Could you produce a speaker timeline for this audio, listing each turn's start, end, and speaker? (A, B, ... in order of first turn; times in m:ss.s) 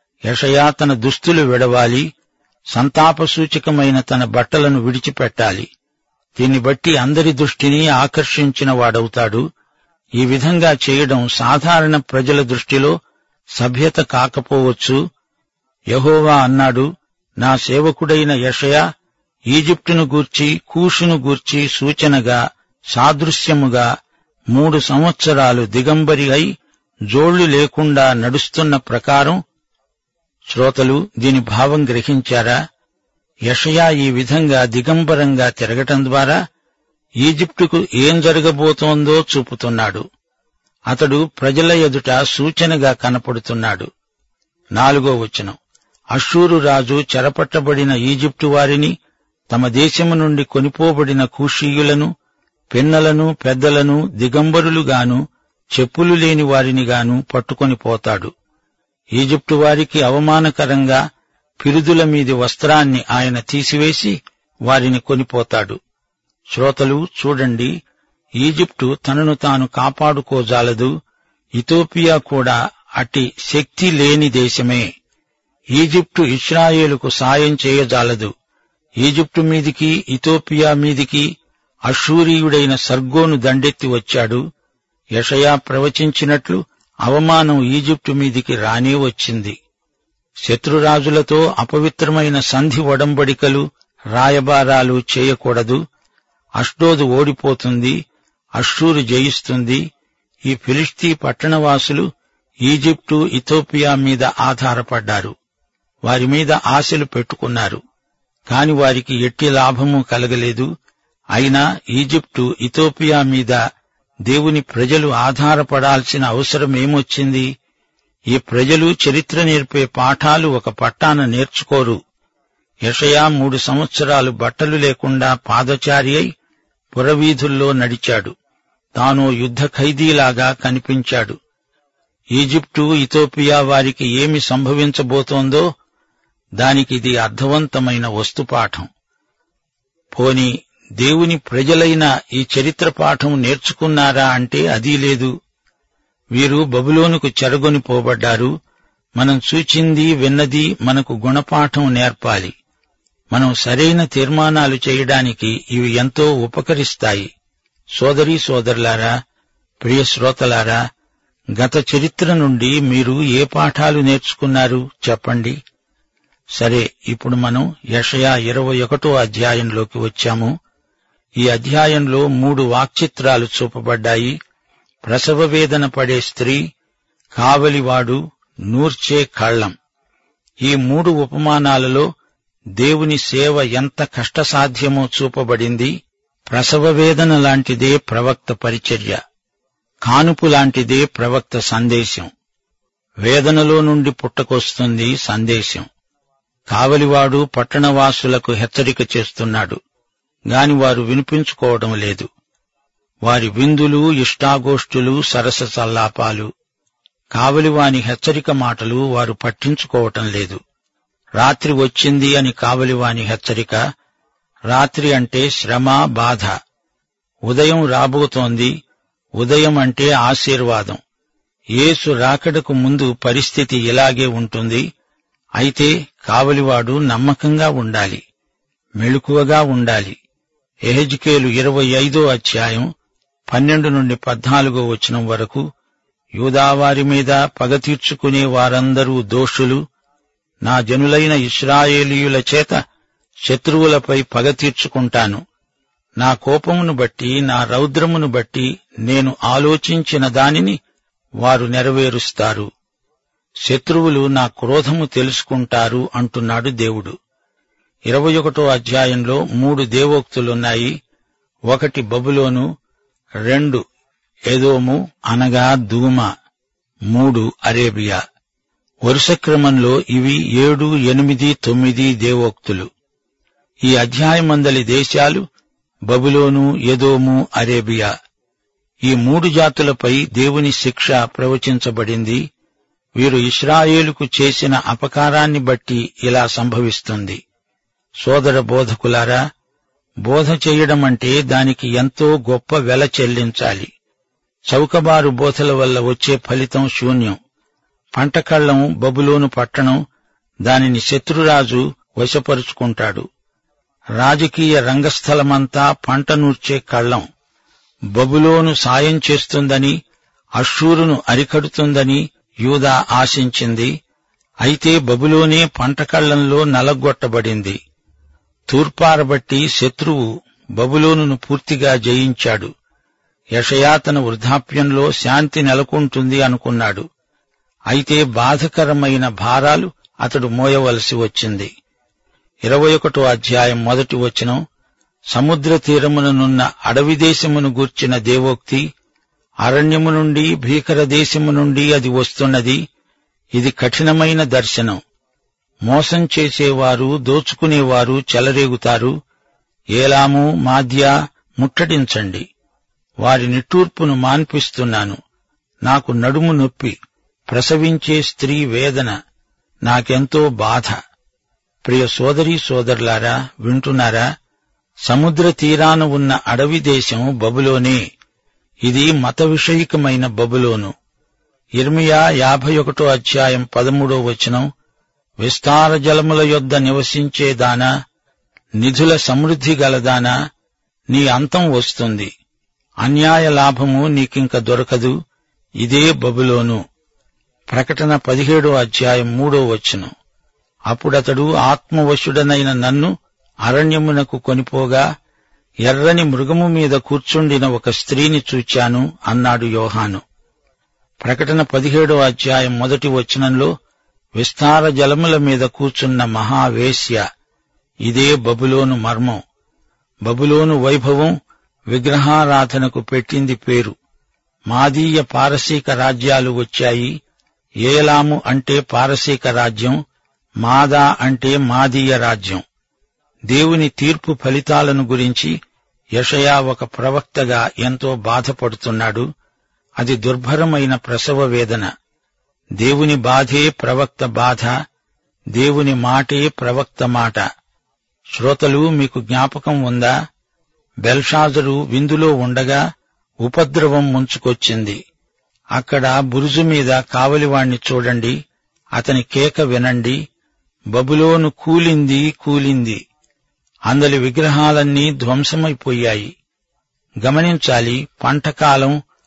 0:00.3-0:02.1 A
0:02.7-0:05.7 A
0:06.4-0:09.4 A
0:10.2-0:13.0 A
0:13.6-0:15.0 A
0:15.9-0:16.9 A
0:17.4-0:18.8 A
0:19.5-0:22.4 A
0:22.9-0:23.9 A
0:24.5-0:26.5 A
0:27.1-0:29.4 A
0:30.5-0:32.6 A
0:33.5-0:36.4 A
0:37.2-0:40.0 A
0:40.9-0:43.9 A
0:44.8-0:45.6 A
0:46.1-0:49.0 A
0:49.5-0:52.1 A
0:52.7-0:55.2 A
0:55.7-0:58.3 A
0:59.2-1:01.0 A
1:01.6-1:05.8 A
1:06.5-1:07.7 A
1:08.4-1:10.9 A
1:11.6-1:14.9 A
1:15.7-1:18.3 A
1:19.0-1:21.3 A
1:21.9-1:24.4 A
1:25.2-1:29.6 A
1:30.4-1:35.8 A
1:36.6-1:38.0 A
1:38.6-1:39.8 A
1:40.5-1:42.1 A
1:42.6-1:45.3 A
1:46.0-1:47.8 A
1:48.5-1:50.7 A
1:51.3-1:53.6 A
1:54.3-1:57.5 A
1:58.3-2:02.0 A
2:02.8-2:06.3 A
2:07.0-2:08.3 A
2:09.0-2:11.4 A
2:12.4-2:15.7 A
2:16.6-2:18.9 A
2:20.1-2:25.3 A
2:26.4-2:28.5 A
2:29.2-2:32.5 A
2:33.3-2:37.3 A
2:38.0-2:39.1 A
2:39.8-2:40.8 A
2:41.6-2:45.6 A
2:46.6-2:50.5 A
2:51.4-2:54.4 A
2:55.1-2:56.6 A
2:57.4-2:59.8 A
3:00.6-3:02.1 A
3:02.8-3:05.9 A
3:06.5-3:09.2 A
3:10.0-3:12.3 A
3:13.2-3:15.9 A
3:16.7-3:19.8 A
3:20.5-3:22.3 A
3:23.2-3:26.5 A
3:27.3-3:30.6 A
3:31.4-3:33.8 A
3:34.7-3:36.5 A
3:37.5-3:38.7 A
3:39.4-3:41.0 A
3:41.8-3:44.8 A
3:45.6-3:48.2 A
3:49.0-3:50.2 A
3:50.8-3:52.9 A
3:53.5-3:55.6 A
3:56.4-3:59.8 A
4:00.6-4:02.8 A
4:03.5-4:05.4 A
4:06.2-4:10.8 A
4:11.4-4:12.7 A
4:13.6-4:17.2 A
4:18.1-4:21.0 A
4:21.7-4:22.7 A
4:23.5-4:23.8 A
4:24.5-4:26.3 A
4:27.1-4:28.2 A
4:29.0-4:32.9 A
4:33.8-4:35.4 A
4:36.1-4:38.1 A
4:39.0-4:42.4 A
4:43.2-4:47.4 A
4:48.2-4:49.4 A
4:50.2-4:53.9 A
4:54.7-4:57.4 A
4:58.1-5:00.0 A
5:00.6-5:03.3 A
5:04.2-5:07.2 A
5:08.2-5:10.0 A
5:10.6-5:13.9 A
5:14.6-5:17.8 A
5:18.7-5:22.7 A
5:23.6-5:27.0 A
5:27.9-5:31.7 A
5:32.7-5:34.6 A
5:35.3-5:38.8 A
5:39.6-5:42.8 A
5:43.6-5:45.0 A
5:45.9-5:49.1 A
5:50.0-5:52.5 A
5:53.2-5:55.2 A
5:55.8-5:57.0 A
5:57.5-5:59.2 A
5:59.9-6:01.0 A
6:01.8-6:04.3 A
6:05.0-6:08.0 A
6:08.8-6:10.9 A
6:11.8-6:14.7 A
6:15.4-6:17.9 A
6:18.8-6:20.3 A
6:21.1-6:22.3 A
6:23.0-6:25.2 A
6:25.8-6:26.8 A
6:27.7-6:30.1 A
6:30.9-6:33.1 A
6:33.6-6:35.0 A
6:35.8-6:40.2 A
6:41.2-6:43.7 A
6:44.4-6:47.2 A
6:48.1-6:49.4 A
6:50.3-6:51.4 A
6:51.9-6:53.9 A
6:54.7-6:57.2 A
6:57.8-7:00.0 A
7:00.6-7:02.6 A
7:03.5-7:05.6 A
7:06.2-7:09.3 A
7:10.0-7:11.9 A
7:12.8-7:14.7 A
7:15.5-7:17.4 A
7:18.3-7:20.1 A
7:21.0-7:22.8 A
7:23.4-7:25.0 A
7:25.8-7:28.4 A
7:29.0-7:30.2 A
7:30.9-7:33.0 A
7:33.9-7:36.3 A
7:37.2-7:39.0 A